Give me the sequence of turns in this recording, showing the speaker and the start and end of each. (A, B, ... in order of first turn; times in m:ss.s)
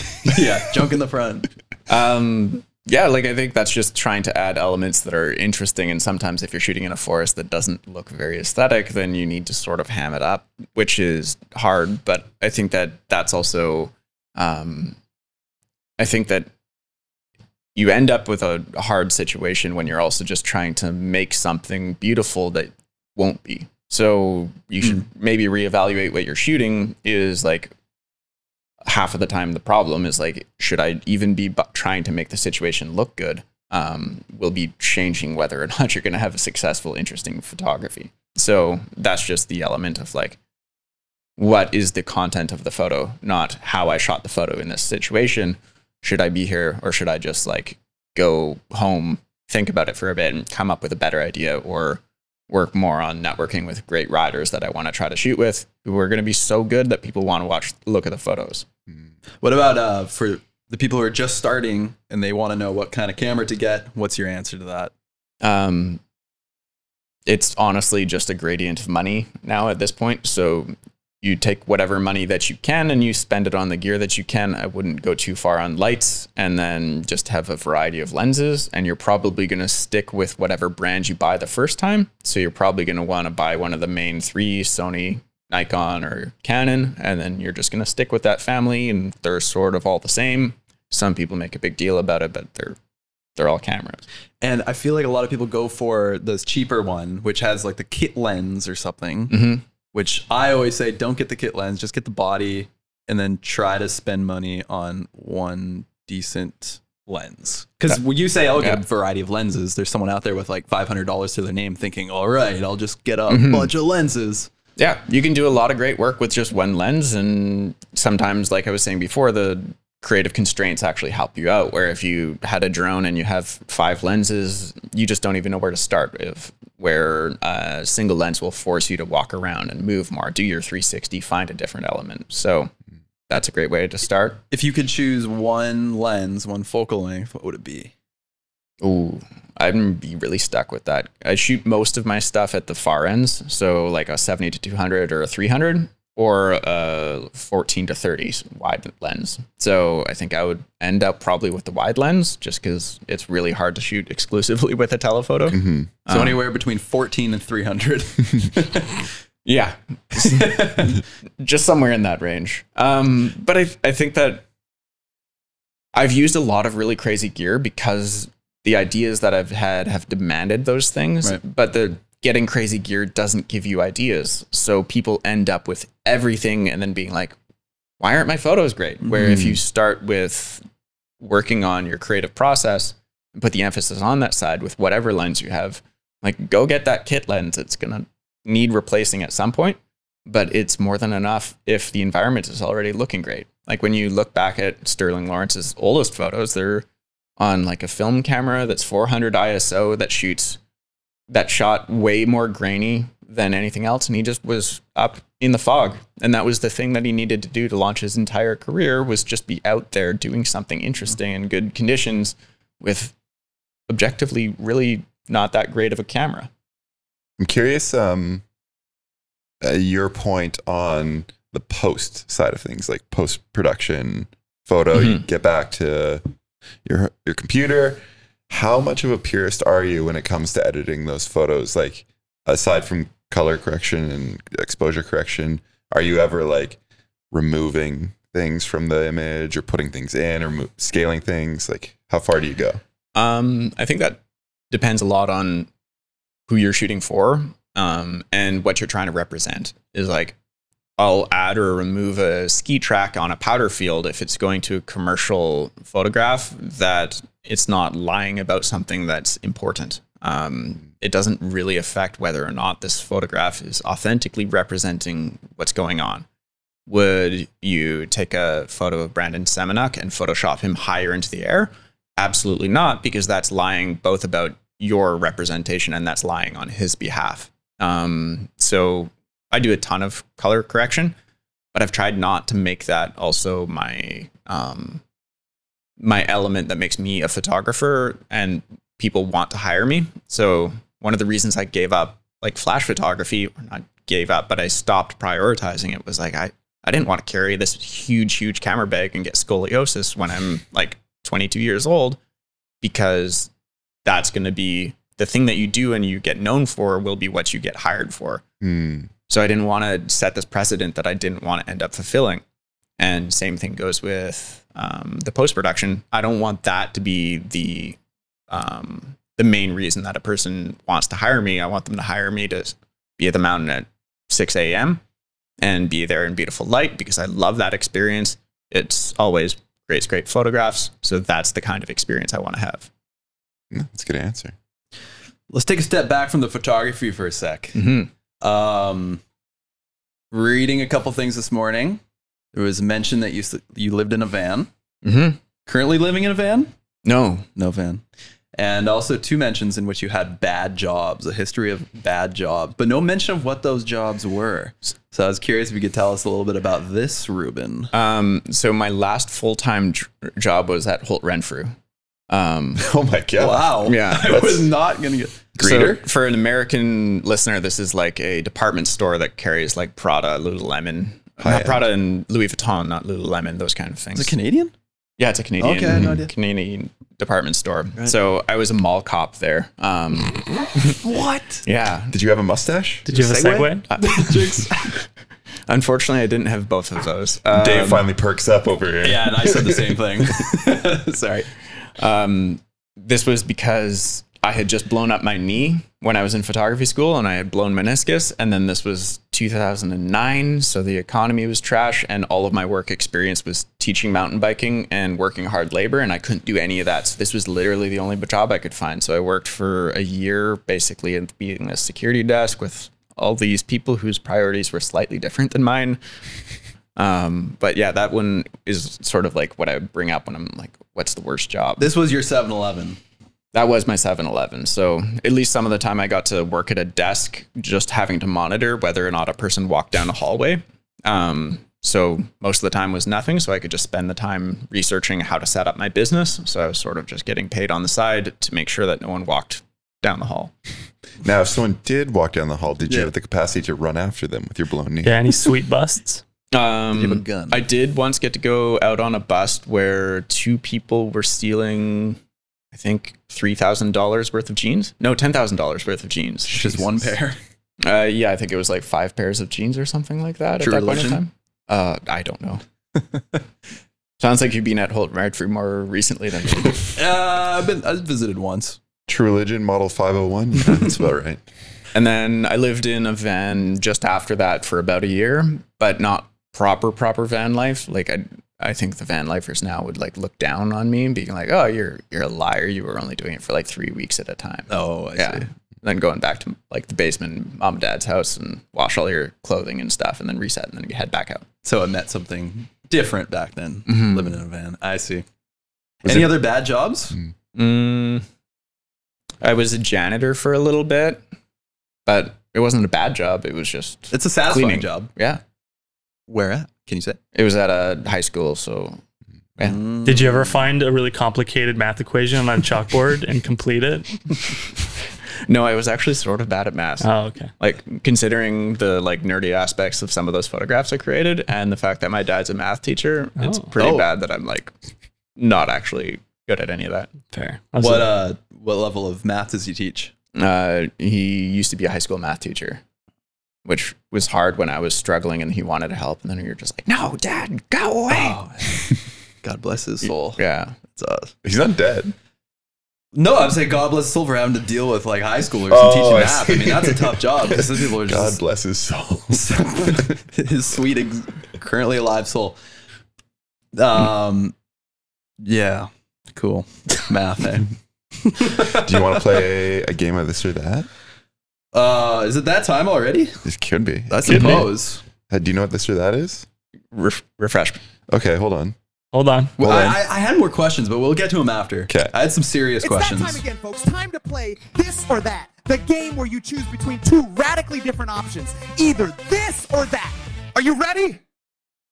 0:00.2-0:01.5 A
0:01.9-0:15.0 B
0:16.0-0:16.5 B
0:17.7-0:27.7 B
0:28.9-0:40.4 B
0:41.4-0:58.6 B
0:59.4-1:04.9 A
1:05.4-1:06.0 B
1:07.3-1:32.8 B
1:33.4-1:34.0 B
1:34.4-1:39.4 A
1:39.3-1:39.6 B
1:39.9-1:54.5 A
1:53.3-1:53.7 B
1:54.8-2:12.7 B
2:13.3-2:14.4 B
2:14.5-2:17.9 A
2:18.8-2:36.4 B
2:35.5-2:35.9 C
2:36.1-2:39.1 A
2:39.4-2:40.5 B
2:40.2-2:41.0 A
2:41.4-2:44.4 B
2:45.9-2:57.4 B
2:58.0-3:00.6 B
2:59.0-2:59.6 A
3:01.2-3:16.8 B
3:17.4-3:20.6 B
3:21.3-3:33.1 B
3:33.9-3:36.5 B
3:37.4-3:38.4 C
3:39.6-3:46.2 C
3:44.9-3:45.2 B
3:46.8-3:56.8 C
3:57.3-4:02.8 C
4:03.1-4:04.2 B
4:04.7-4:05.7 B
4:06.5-4:10.4 B
4:11.0-4:26.2 B
4:26.9-4:41.1 B
4:41.7-4:45.0 B
4:46.0-5:02.2 B
5:02.8-5:03.5 B
5:04.0-5:08.4 B
5:08.6-5:09.1 C
5:09.3-5:12.4 B
5:13.0-5:18.0 B
5:18.5-5:25.0 B
5:25.6-5:32.9 B
5:33.7-5:34.5 C
5:35.5-5:37.8 A
5:37.7-5:38.1 B
5:38.4-5:39.2 A
5:40.3-5:42.0 A
5:42.5-5:44.7 A
5:45.0-5:45.4 B
5:45.6-5:46.7 A
5:47.0-5:47.5 B
5:47.6-5:48.0 A
5:48.6-5:57.9 A
5:57.9-6:01.7 B
6:02.3-6:02.8 B
6:02.8-6:03.9 C
6:03.4-6:06.0 A
6:03.8-6:04.6 B
6:05.6-6:06.0 C
6:05.6-6:14.3 B
6:11.4-6:11.8 C
6:14.1-6:14.7 A
6:15.2-6:20.4 B
6:15.6-6:16.3 A
6:15.9-6:16.2 C
6:20.9-6:21.6 A
6:21.6-6:22.1 B
6:22.1-6:23.1 C
6:23.1-6:23.8 D
6:23.1-6:25.0 A
6:23.9-6:24.4 B
6:25.7-6:28.0 B
6:27.5-6:30.4 C
6:29.0-6:31.5 A
6:32.0-6:56.0 B
6:57.0-7:01.9 B
7:01.8-7:03.0 A
7:03.5-7:20.5 B
7:21.2-7:25.4 C
7:25.0-7:26.2 D
7:26.5-7:32.2 B
7:26.9-7:27.6 A
7:32.7-7:36.8 B
7:36.5-7:37.4 A
7:37.8-7:42.6 B
7:40.6-7:41.2 A
7:44.2-7:47.0 B
7:47.0-7:48.8 A
7:49.1-7:51.4 C
7:51.9-8:11.4 B
8:04.7-8:05.5 A
8:11.6-8:15.2 A
8:13.9-8:14.4 B
8:16.0-8:16.4 C
8:16.0-8:17.2 A
8:17.5-8:18.2 B
8:19.4-8:21.2 B
8:22.0-8:25.4 B
8:24.1-8:25.1 A
8:26.3-8:27.2 A
8:27.3-8:29.0 B
8:29.6-8:30.6 A
8:30.0-8:34.5 D
8:35.5-8:44.7 B
8:37.0-8:37.5 D
8:43.4-8:43.6 D
8:43.8-8:44.1 A
8:45.4-8:47.1 B
8:47.3-8:48.1 D
8:47.8-8:50.1 A
8:50.3-8:52.8 B
8:53.6-8:58.8 B
8:58.1-9:01.3 A
9:00.3-9:00.8 B
9:01.4-9:02.1 C
9:03.1-9:08.4 A
9:05.7-9:10.2 C
9:09.3-9:12.6 A
9:13.7-9:14.5 A
9:15.4-9:19.4 A
9:18.8-9:20.9 C
9:21.7-9:23.4 A
9:23.4-9:24.6 C
9:24.1-9:25.0 A
9:24.3-9:24.6 D
9:25.3-9:26.4 C
9:26.9-9:27.8 B
9:28.1-9:28.8 C
9:29.1-9:29.8 D
9:29.6-9:33.4 A
9:29.6-9:29.9 C
9:31.9-9:32.1 C
9:32.8-9:41.2 E